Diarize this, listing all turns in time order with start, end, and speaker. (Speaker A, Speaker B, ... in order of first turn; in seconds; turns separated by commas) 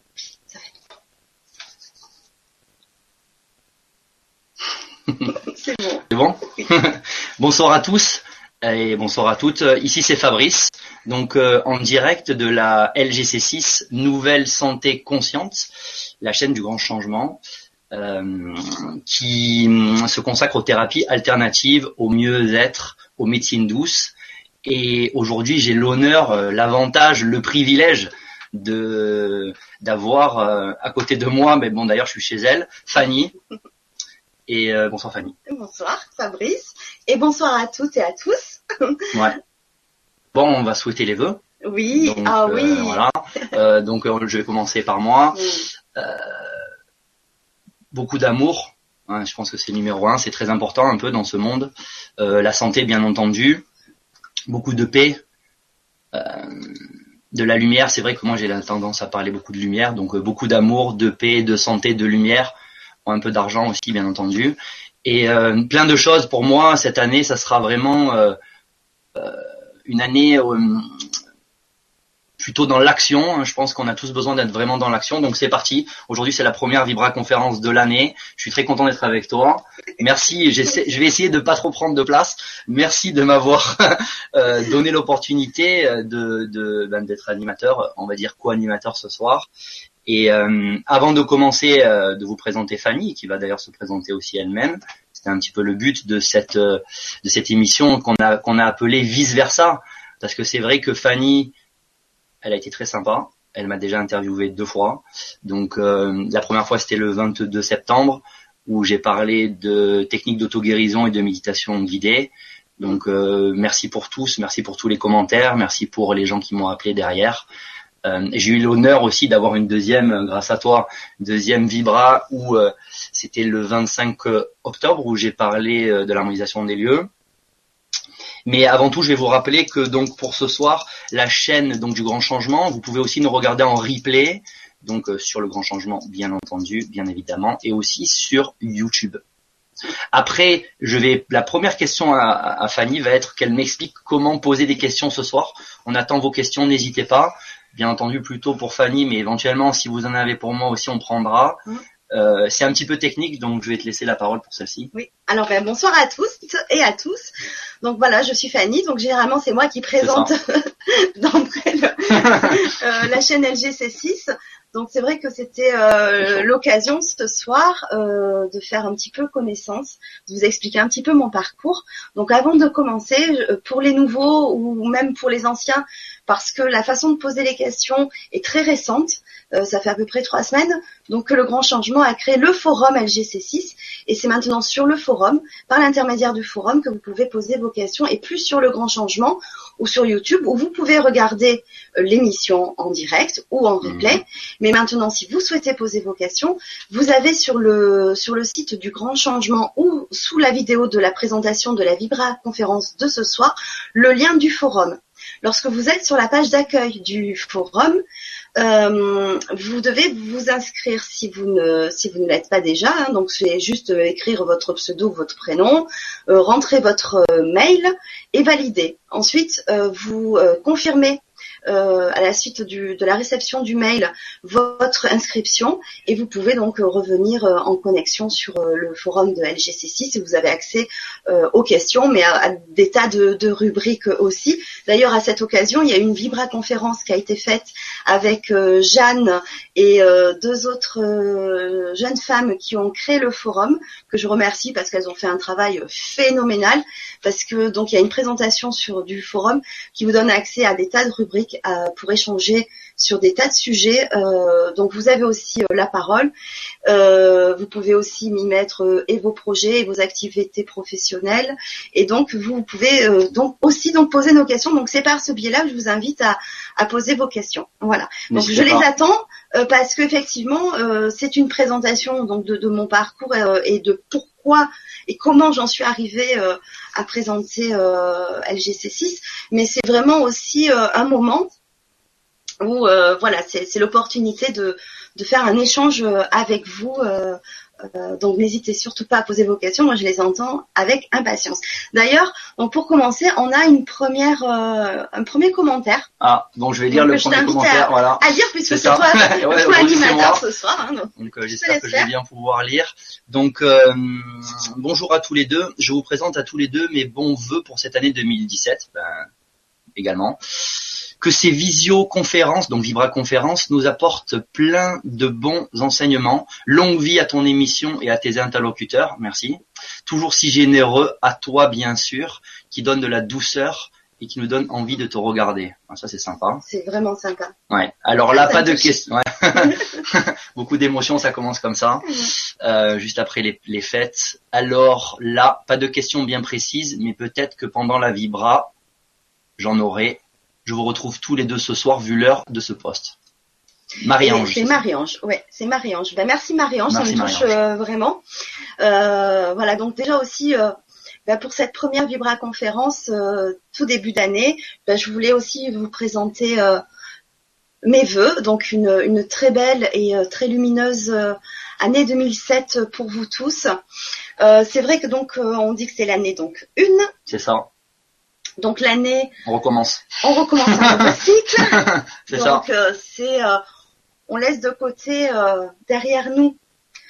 Speaker A: 0.5-0.8, Speaker A: 5.4-6.0, Speaker B: 6.1-15.7, Speaker B: 16.2-17.4, Speaker B: 17.9-24.1, Speaker B: 24.6-33.3, Speaker B: 34.5-35.3, Speaker A: 35.5-39.1, Speaker B: 40.3-41.4, Speaker A: 41.6-43.0, Speaker B: 41.9-46.7, Speaker A: 45.3-45.7, Speaker B: 47.9-53.6, Speaker B: 54.5-55.2, Speaker B: 56.1-62.5, Speaker B: 63.0-68.4, Speaker B: 69.2-71.0, Speaker B: 72.4-89.5, Speaker B: 90.0-101.5, Speaker B: 102.4-117.5, Speaker B: 118.0-127.1, Speaker B: 128.4-139.2, Speaker B: 140.1-154.9, Speaker A: 154.9-208.0, Speaker B: 160.0-160.3, Speaker B: 162.1-162.6, Speaker B: 193.8-194.2, Speaker A: 208.6-256.3, Speaker A: 256.9-281.5, Speaker B: 268.3-268.9, Speaker A: 282.6-296.1, Speaker B: 296.2-300.4, Speaker A: 296.9-302.1, Speaker B: 301.2-309.3, Speaker B: 309.9-326.6, Speaker A: 326.6-327.5, Speaker B: 327.7-338.7, Speaker A: 328.3-328.9, Speaker A: 329.6-329.9, Speaker B: 339.6-343.1, Speaker B: 344.0-344.8, Speaker A: 344.2-348.2, Speaker B: 346.9-347.6, Speaker A: 348.8-350.7, Speaker A: 351.2-356.8, Speaker A: 357.8-363.8, Speaker A: 364.4-367.1, Speaker B: 367.3-367.7, Speaker A: 368.6-369.3, Speaker B: 369.4-372.6, Speaker A: 370.2-373.6, Speaker A: 374.3-376.6